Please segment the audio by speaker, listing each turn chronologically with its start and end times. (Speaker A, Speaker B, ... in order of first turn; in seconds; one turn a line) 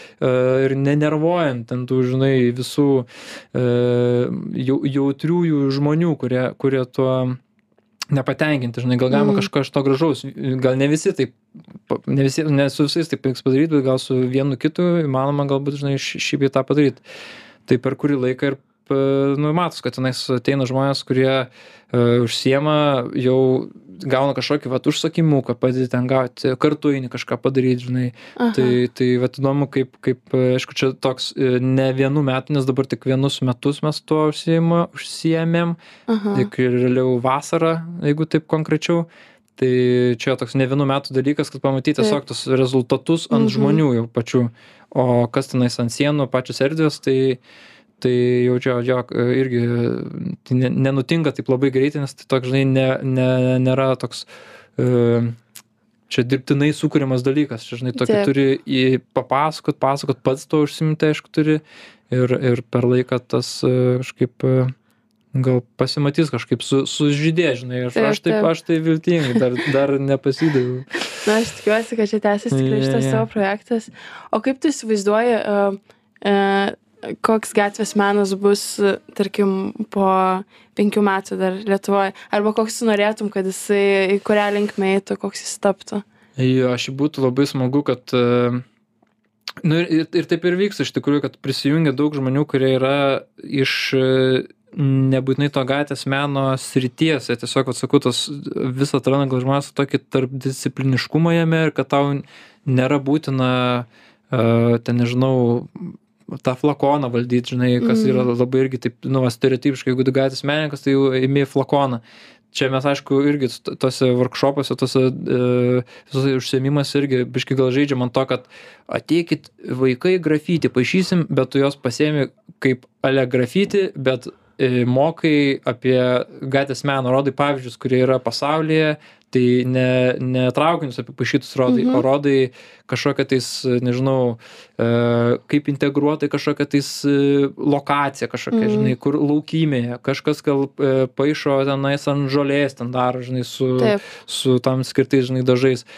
Speaker A: 0.2-7.4
Speaker A: 8.1-17.0
Speaker B: 9.1-9.5
Speaker A: 17.7-35.8
Speaker B: 28.4-28.8
Speaker B: 36.1-36.5
Speaker A: 36.3-39.1
Speaker A: 39.6-47.4
Speaker B: 43.3-43.8
Speaker A: 48.0-55.4
Speaker A: 56.1-64.7
Speaker B: 58.0-58.3
Speaker A: 65.3-70.9
Speaker B: 68.0-68.5
Speaker B: 71.2-86.0
Speaker A: 72.5-73.3
Speaker A: 86.4-88.6
Speaker A: 89.6-145.8
Speaker B: 107.8-108.3
Speaker B: 131.7-132.1
Speaker B: 138.5-138.9